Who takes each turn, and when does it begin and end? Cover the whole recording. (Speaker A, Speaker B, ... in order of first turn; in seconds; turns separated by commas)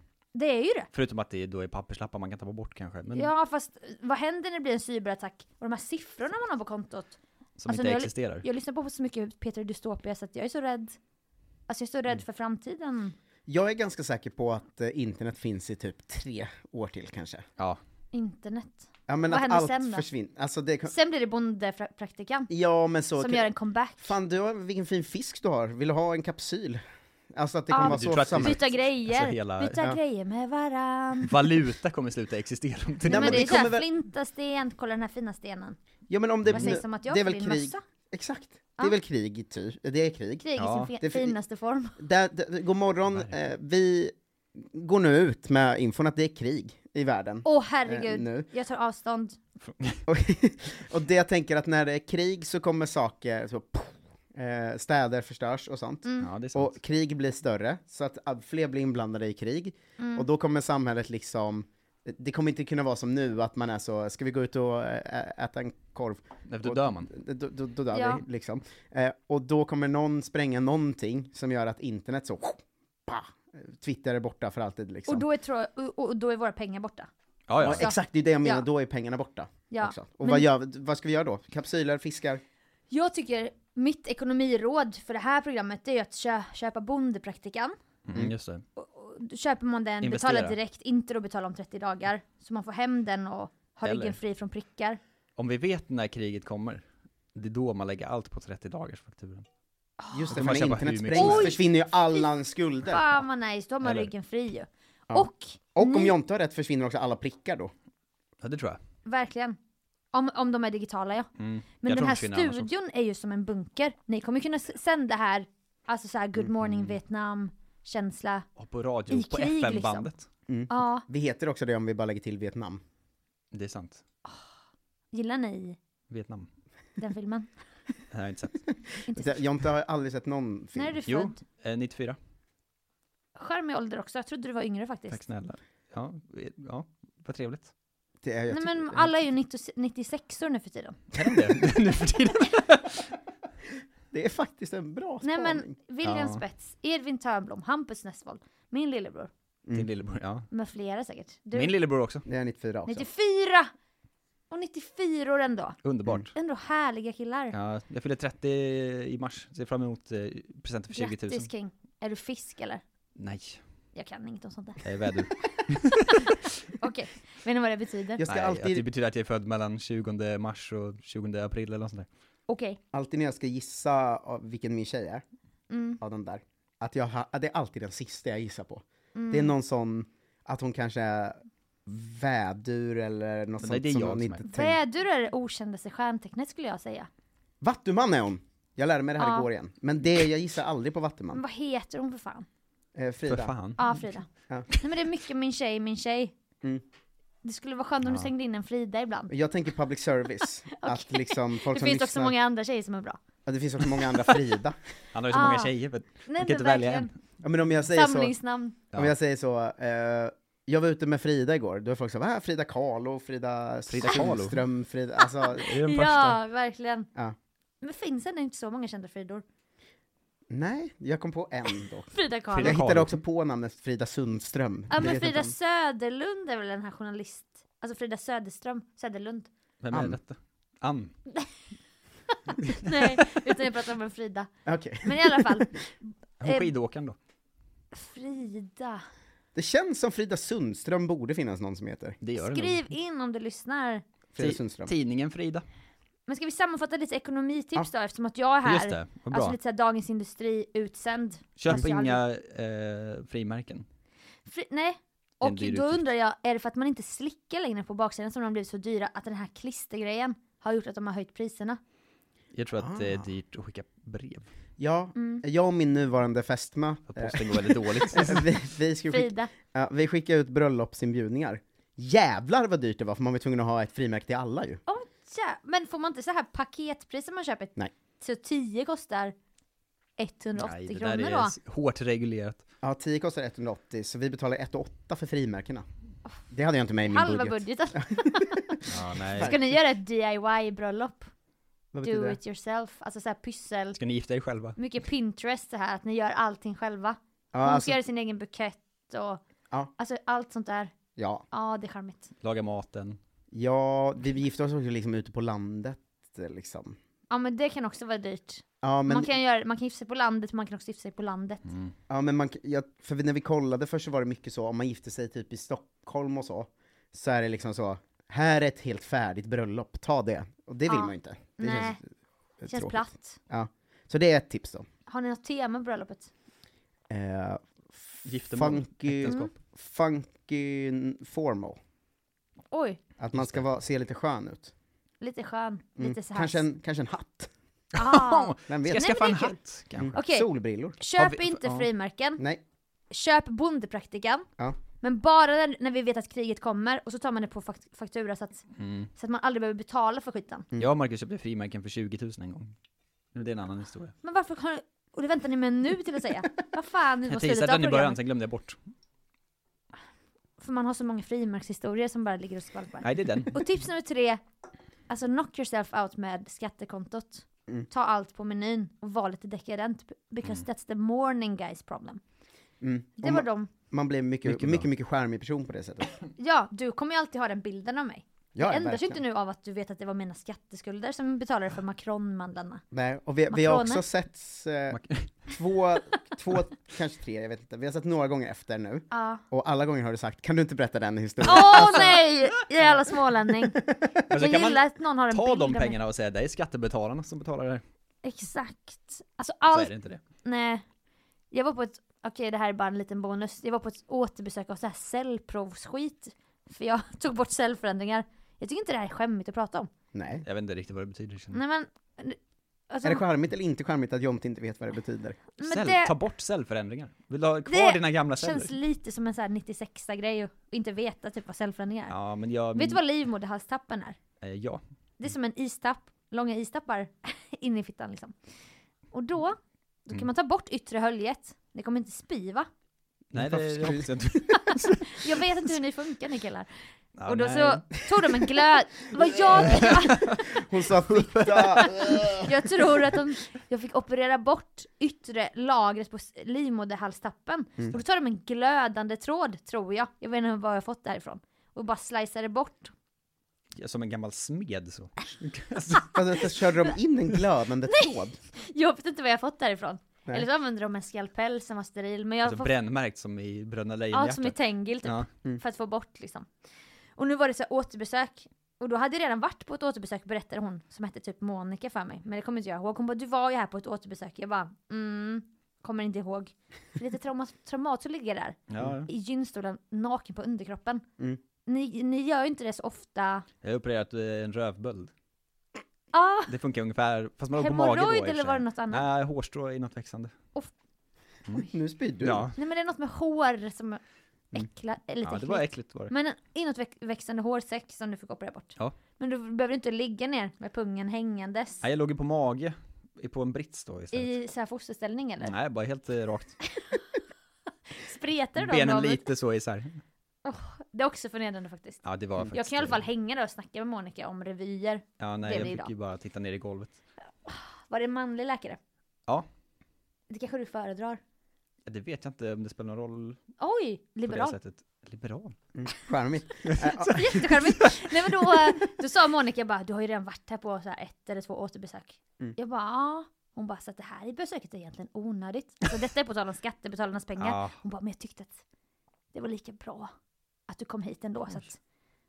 Speaker A: 0.3-0.9, Speaker B: 0.9-3.3, Speaker A: 3.1-11.0, Speaker B: 7.6-8.4, Speaker A: 11.7-13.1, Speaker C: 13.5-17.4, Speaker A: 18.1-20.1, Speaker C: 19.1-20.9, Speaker A: 20.9-22.5, Speaker C: 22.5-26.8, Speaker A: 23.2-24.1, Speaker C: 27.3-28.6, Speaker A: 27.7-31.4, Speaker B: 27.8-29.8, Speaker B: 31.2-33.7, Speaker C: 33.0-33.9, Speaker A: 33.1-35.8, Speaker C: 36.1-40.5, Speaker B: 36.4-36.8, Speaker A: 36.5-37.8, Speaker A: 40.4-42.0, Speaker B: 40.6-40.9, Speaker C: 41.0-41.4, Speaker C: 42.0-48.5, Speaker A: 47.4-49.4, Speaker B: 49.6-50.0, Speaker C: 50.1-75.2, Speaker B: 56.2-56.7, Speaker A: 60.0-60.3, Speaker B: 66.5-67.1, Speaker A: 67.9-68.2, Speaker A: 75.1-77.1, Speaker B: 77.5-77.9, Speaker C: 77.6-82.4, Speaker A: 77.7-78.6, Speaker A: 79.7-80.5, Speaker A: 82.9-87.8, Speaker B: 88.1-88.6, Speaker A: 88.8-95.0, Speaker B: 90.0-90.5, Speaker B: 93.8-94.2, Speaker B: 95.4-96.8, Speaker B: 97.3-99.4, Speaker A: 100.0-100.3, Speaker C: 100.1-103.0, Speaker B: 100.3-101.6, Speaker A: 101.1-101.6, Speaker A: 102.8-106.1, Speaker B: 103.8-104.1, Speaker C: 105.1-107.7, Speaker B: 108.4-108.8, Speaker A: 109.0-109.6, Speaker A: 110.1-111.3, Speaker B: 111.4-112.7, Speaker A: 111.8-118.5, Speaker B: 116.6-116.9, Speaker B: 118.6-120.2, Speaker A: 119.1-120.1, Speaker C: 120.5-122.8, Speaker A: 120.7-121.0, Speaker B: 123.5-124.0, Speaker A: 125.1-125.8, Speaker B: 126.1-126.5, Speaker A: 127.0-127.5, Speaker B: 128.1-128.6, Speaker A: 129.1-129.3, Speaker C: 129.1-131.0, Speaker A: 130.7-131.4, Speaker B: 131.1-132.2, Speaker A: 133.3-135.2, Speaker B: 135.1-137.7, Speaker C: 138.2-139.1, Speaker A: 138.5-141.0, Speaker B: 141.1-143.1, Speaker C: 144.1-145.7, Speaker A: 145.2-149.3, Speaker B: 146.0-146.4, Speaker B: 149.7-150.5, Speaker A: 150.5-151.7, Speaker B: 151.5-152.2, Speaker C: 152.2-153.1, Speaker A: 152.9-153.7, Speaker A: 154.5-155.8, Speaker B: 155.8-156.3, Speaker A: 156.3-157.5, Speaker B: 157.5-161.5, Speaker A: 160.9-162.8, Speaker B: 163.2-163.6, Speaker A: 163.9-164.8, Speaker B: 164.8-166.3, Speaker A: 166.1-168.2, Speaker C: 168.2-168.8, Speaker B: 168.3-172.1, Speaker A: 172.5-172.8, Speaker C: 172.9-175.2, Speaker A: 175.7-176.0, Speaker C: 176.0-184.8, Speaker A: 179.1-179.5, Speaker B: 183.6-184.4, Speaker A: 184.5-187.1, Speaker C: 187.6-191.4, Speaker A: 189.2-189.5, Speaker A: 191.3-192.5, Speaker C: 192.9-193.6, Speaker B: 193.3-194.0, Speaker A: 193.8-196.3, Speaker A: 197.4-199.3, Speaker C: 199.3-202.3, Speaker A: 200.8-203.2, Speaker C: 203.4-204.8, Speaker B: 205.1-207.1, Speaker A: 205.3-205.7, Speaker A: 206.2-207.1, Speaker C: 207.4-208.3, Speaker A: 207.9-208.8, Speaker C: 208.9-215.7, Speaker B: 213.9-214.6, Speaker A: 215.5-217.1, Speaker B: 215.7-216.4, Speaker A: 217.8-219.4, Speaker C: 220.5-225.5, Speaker A: 222.1-222.7, Speaker B: 222.5-223.2, Speaker A: 224.9-229.5, Speaker B: 229.8-231.1, Speaker C: 229.9-230.2, Speaker A: 232.5-234.5, Speaker C: 234.7-235.8, Speaker A: 235.0-235.7, Speaker B: 236.4-237.2, Speaker A: 236.4-236.7, Speaker A: 237.9-239.0, Speaker C: 239.5-242.2, Speaker B: 242.2-242.8, Speaker A: 242.4-244.0, Speaker C: 244.3-244.9, Speaker B: 244.4-245.6, Speaker A: 246.3-252.2, Speaker B: 248.6-249.6, Speaker B: 251.6-253.8, Speaker A: 254.5-261.8, Speaker B: 255.4-256.0, Speaker B: 262.5-264.5, Speaker C: 262.8-263.2, Speaker C: 264.8-274.8, Speaker A: 265.1-265.4, Speaker B: 267.1-268.5, Speaker A: 269.1-269.5, Speaker A: 274.9-279.3, Speaker A: 280.2-281.6, Speaker B: 280.6-282.6, Speaker C: 282.8-285.8, Speaker C: 286.5-288.8, Speaker A: 287.1-288.8, Speaker B: 288.9-289.6, Speaker A: 289.4-291.3, Speaker C: 291.9-292.4, Speaker A: 292.0-294.0, Speaker B: 294.0-294.8, Speaker A: 294.8-299.4, Speaker C: 297.5-298.0, Speaker A: 300.0-300.9, Speaker C: 301.1-301.4, Speaker A: 301.5-302.3, Speaker B: 302.4-303.2, Speaker C: 303.5-307.0, Speaker A: 307.3-311.6, Speaker C: 308.8-309.4, Speaker B: 311.6-311.9, Speaker C: 312.1-324.9, Speaker A: 320.9-322.0, Speaker A: 322.7-323.4, Speaker A: 325.1-326.3, Speaker C: 327.1-331.8, Speaker B: 328.2-329.5, Speaker A: 329.2-329.5, Speaker A: 332.7-333.0, Speaker C: 333.2-334.7, Speaker B: 333.3-333.6, Speaker A: 335.2-336.6, Speaker C: 336.0-337.5, Speaker A: 337.9-339.6, Speaker B: 337.9-340.1, Speaker C: 338.7-339.0, Speaker C: 340.0-341.8, Speaker A: 340.1-342.4, Speaker A: 343.1-344.4, Speaker A: 345.0-348.6, Speaker B: 348.8-349.1, Speaker A: 349.1-350.7, Speaker B: 350.8-352.7, Speaker B: 353.3-354.1, Speaker A: 354.2-358.1, Speaker B: 357.2-358.8, Speaker A: 360.6-364.4, Speaker B: 363.0-363.5, Speaker A: 365.1-372.2, Speaker C: 372.8-376.1, Speaker A: 373.2-373.7, Speaker B: 374.4-374.9, Speaker A: 376.4-382.8, Speaker C: 378.5-379.2, Speaker C: 382.9-392.2, Speaker A: 383.5-384.0, Speaker B: 384.9-385.3, Speaker A: 389.1-389.4, Speaker A: 391.4-393.8, Speaker B: 391.8-392.1, Speaker C: 393.9-394.2, Speaker B: 394.3-397.8, Speaker A: 394.3-396.0, Speaker A: 398.2-399.9, Speaker B: 399.7-400.2, Speaker A: 400.4-400.8, Speaker A: 401.5-409.9, Speaker C: 410.1-410.4, Speaker B: 410.4-411.6, Speaker A: 411.5-412.4, Speaker A: 412.9-413.2, Speaker C: 413.0-415.4, Speaker A: 415.6-416.1, Speaker B: 415.6-418.7, Speaker A: 417.6-422.1, Speaker B: 422.1-423.0, Speaker A: 422.7-424.2, Speaker B: 424.4-424.8, Speaker A: 425.2-428.3, Speaker A: 429.1-432.7, Speaker B: 433.3-435.1, Speaker C: 433.3-434.2, Speaker A: 434.6-436.7, Speaker B: 437.2-438.0, Speaker A: 437.2-440.4, Speaker C: 439.6-442.5, Speaker B: 439.7-440.3, Speaker B: 441.1-442.4, Speaker A: 442.4-452.9, Speaker B: 453.8-456.1, Speaker C: 456.1-458.4, Speaker A: 457.9-462.7, Speaker B: 462.4-465.3, Speaker A: 464.1-466.5, Speaker A: 467.2-481.0, Speaker B: 478.7-479.1, Speaker A: 481.6-483.4, Speaker B: 483.6-485.1, Speaker A: 486.1-486.5, Speaker B: 486.5-490.3, Speaker A: 487.6-489.1, Speaker C: 491.7-492.5, Speaker B: 492.2-492.6, Speaker A: 492.6-494.0, Speaker A: 494.5-501.8, Speaker B: 495.2-496.1, Speaker B: 501.8-504.3, Speaker A: 504.1-505.5, Speaker B: 505.4-506.6, Speaker A: 508.0-509.3, Speaker B: 508.6-510.0, Speaker A: 510.4-515.9, Speaker B: 512.0-513.0, Speaker B: 515.2-517.0, Speaker A: 517.4-518.8, Speaker A: 520.3-521.2, Speaker B: 521.9-523.4, Speaker A: 523.6-524.5, Speaker B: 524.2-525.5, Speaker C: 525.7-527.4, Speaker B: 526.6-527.9, Speaker A: 527.1-538.6, Speaker B: 537.4-537.8, Speaker A: 539.3-540.1, Speaker A: 540.7-541.8